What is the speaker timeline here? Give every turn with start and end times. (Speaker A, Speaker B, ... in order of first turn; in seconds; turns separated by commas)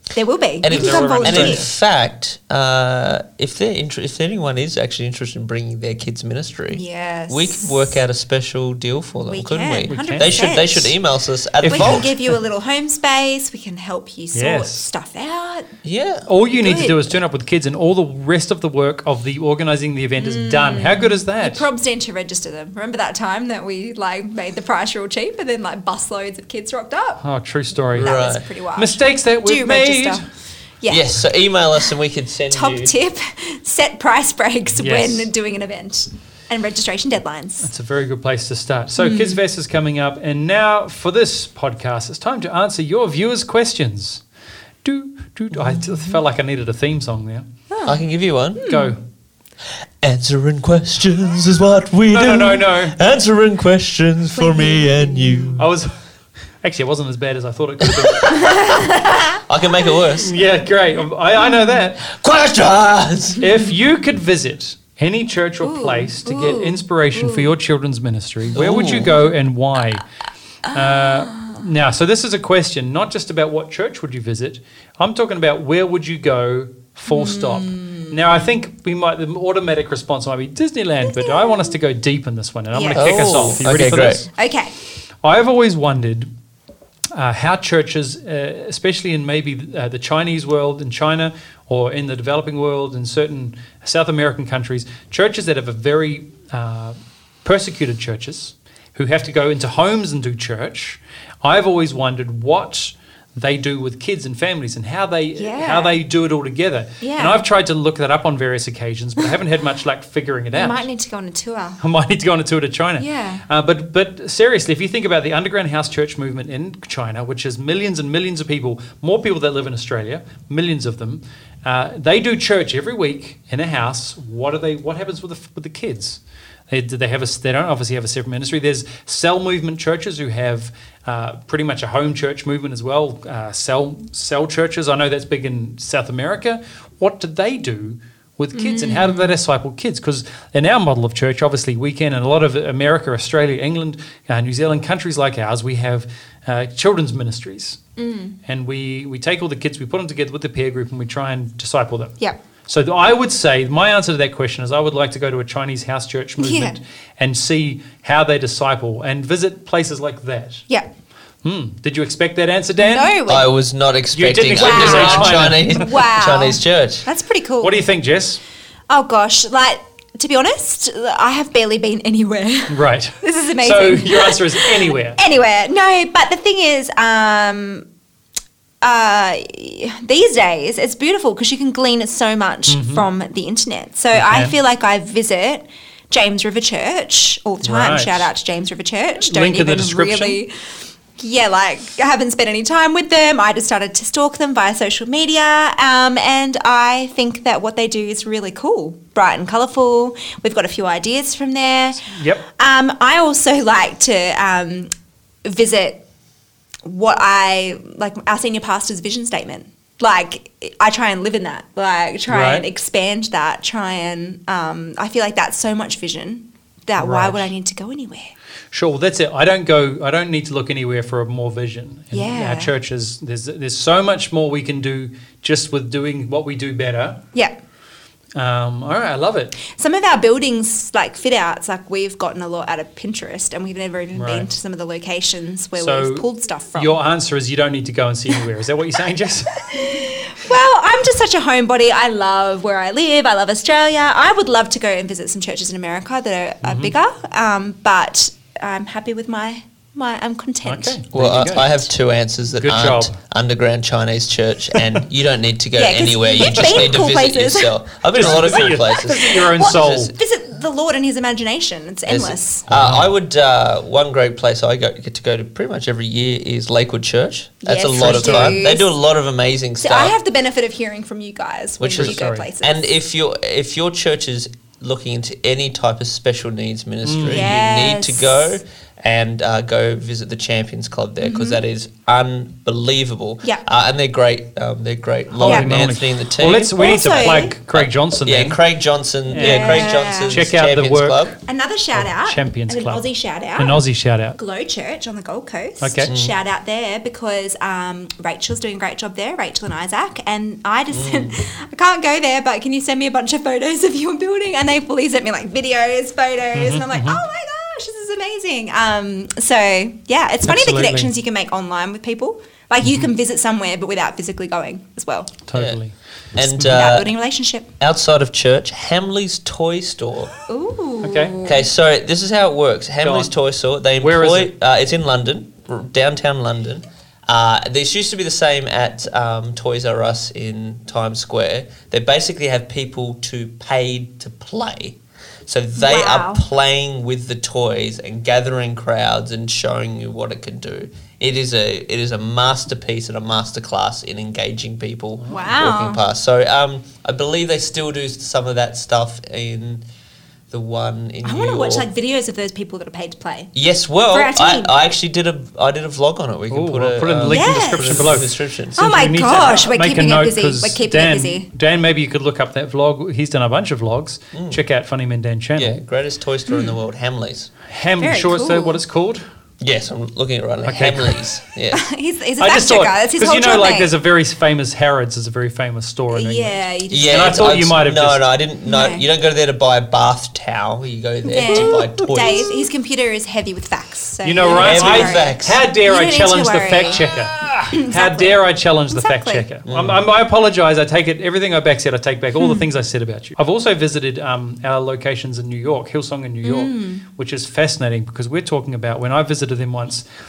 Speaker A: 0.1-1.7, Speaker B: 0.6-12.1, Speaker C: 0.7-1.6, Speaker A: 6.7-8.0, Speaker A: 9.3-10.9, Speaker C: 9.8-10.4, Speaker C: 11.6-12.3, Speaker A: 11.6-15.7, Speaker C: 14.3-14.9, Speaker B: 15.8-16.3, Speaker C: 16.3-21.6, Speaker A: 16.6-17.1, Speaker A: 20.2-27.2, Speaker C: 27.2-28.2, Speaker A: 27.9-30.2, Speaker B: 28.0-28.4, Speaker C: 28.8-30.2, Speaker A: 30.8-31.2, Speaker B: 30.9-32.9, Speaker A: 32.5-37.7, Speaker C: 34.8-35.3, Speaker C: 37.6-44.2, Speaker A: 39.0-39.4, Speaker C: 44.8-47.5, Speaker B: 45.5-46.2, Speaker A: 47.7-48.0, Speaker B: 47.8-48.6, Speaker A: 48.6-49.0, Speaker C: 48.6-49.0, Speaker B: 50.0-55.6, Speaker C: 52.1-53.0, Speaker A: 54.4-55.5, Speaker C: 55.6-55.9, Speaker C: 56.6-58.4, Speaker B: 57.8-60.3, Speaker A: 58.3-59.4, Speaker C: 60.2-62.0, Speaker B: 62.0-63.4, Speaker C: 63.4-70.0, Speaker A: 65.6-67.5, Speaker B: 68.5-69.2, Speaker A: 70.7-71.6, Speaker C: 70.7-84.3, Speaker A: 77.1-78.2, Speaker A: 81.1-81.7, Speaker A: 82.7-83.6, Speaker B: 82.9-84.2, Speaker A: 84.3-84.7, Speaker C: 85.2-86.3, Speaker C: 87.1-110.8, Speaker A: 105.3-106.0, Speaker A: 107.0-107.4, Speaker A: 110.5-111.8, Speaker C: 111.8-147.8, Speaker A: 113.0-113.4, Speaker A: 138.5-139.3, Speaker A: 148.0-148.4, Speaker C: 148.4-152.1, Speaker C: 152.7-160.6, Speaker A: 156.4-156.8, Speaker C: 161.4-163.1, Speaker A: 162.8-163.5, Speaker B: 163.2-167.1, Speaker C: 164.1-165.9, Speaker A: 164.5-167.8, Speaker C: 167.6-168.4, Speaker A: 168.9-177.8, Speaker C: 172.7-175.2, Speaker A: 178.8-190.5, Speaker C: 182.7-183.1, Speaker C: 184.1-184.6, Speaker C: 187.6-188.3, Speaker C: 189.2-190.4, Speaker A: 191.2-204.9, Speaker C: 202.1-202.4, Speaker A: 205.4-206.0, Speaker A: 206.8-218.3, Speaker C: 212.3-212.7, Speaker C: 217.0-217.5, Speaker C: 218.7-227.2, Speaker A: 222.1-222.7, Speaker C: 228.3-229.6, Speaker A: 229.7-237.0, Speaker C: 234.1-234.5, Speaker C: 235.8-240.1, Speaker A: 239.7-251.0, Speaker C: 246.6-246.9, Speaker C: 250.6-251.7, Speaker B: 251.1-260.1, Speaker C: 252.5-253.2, Speaker A: 255.8-257.8, Speaker C: 256.4-256.8, Speaker C: 258.1-260.1, Speaker A: 259.3-262.7, Speaker B: 262.1-270.1, Speaker C: 262.7-263.0, Speaker A: 267.6-268.9, Speaker C: 268.0-268.7, Speaker A: 269.8-272.9, Speaker B: 271.8-286.7, Speaker C: 271.9-272.5, Speaker C: 277.0-277.5, Speaker A: 277.3-278.6, Speaker A: 281.2-281.6, Speaker C: 285.4-288.6, Speaker A: 285.4-285.7, Speaker A: 286.7-287.5, Speaker B: 287.3-291.3, Speaker C: 289.3-291.4, Speaker A: 289.3-290.4, Speaker A: 291.5-293.8, Speaker C: 291.9-293.0, Speaker C: 293.6-294.4, Speaker A: 294.3-315.3, Speaker C: 295.8-296.1, Speaker B: 296.1-296.3, Speaker B: 300.9-301.4, Speaker C: 306.5-307.2, Speaker C: 310.4-311.1, Speaker C: 312.8-313.1, Speaker C: 315.4-315.9, Speaker B: 316.3-317.1, Speaker C: 316.5-316.8, Speaker A: 316.6-317.7, Speaker B: 317.8-320.3, Speaker A: 320.5-321.6, Speaker C: 321.0-321.4, Speaker B: 321.4-349.8, Speaker C: 323.0-323.3, Speaker C: 324.0-324.5, Speaker A: 335.8-336.4, Speaker A: 345.3-346.0, Speaker B: 350.5-351.9, Speaker A: 351.2-353.5, Speaker B: 353.5-358.8, Speaker A: 354.1-354.7, Speaker C: 356.5-365.8, Speaker A: 357.2-358.1, Speaker A: 358.8-361.5, Speaker B: 364.3-364.6, Speaker B: 365.6-367.5, Speaker C: 367.7-369.2, Speaker A: 368.0-368.8, Speaker B: 369.6-371.8, Speaker C: 370.6-371.1, Speaker A: 371.7-373.9, Speaker C: 372.4-376.5, Speaker A: 376.1-377.5, Speaker B: 376.9-382.5, Speaker C: 377.1-378.2, Speaker A: 378.6-379.0, Speaker A: 381.2-387.1, Speaker C: 381.5-381.8, Speaker C: 384.2-400.0, Speaker B: 384.4-385.6, Speaker A: 387.7-389.4, Speaker B: 389.6-390.0, Speaker A: 392.4-392.6, Speaker A: 396.4-397.0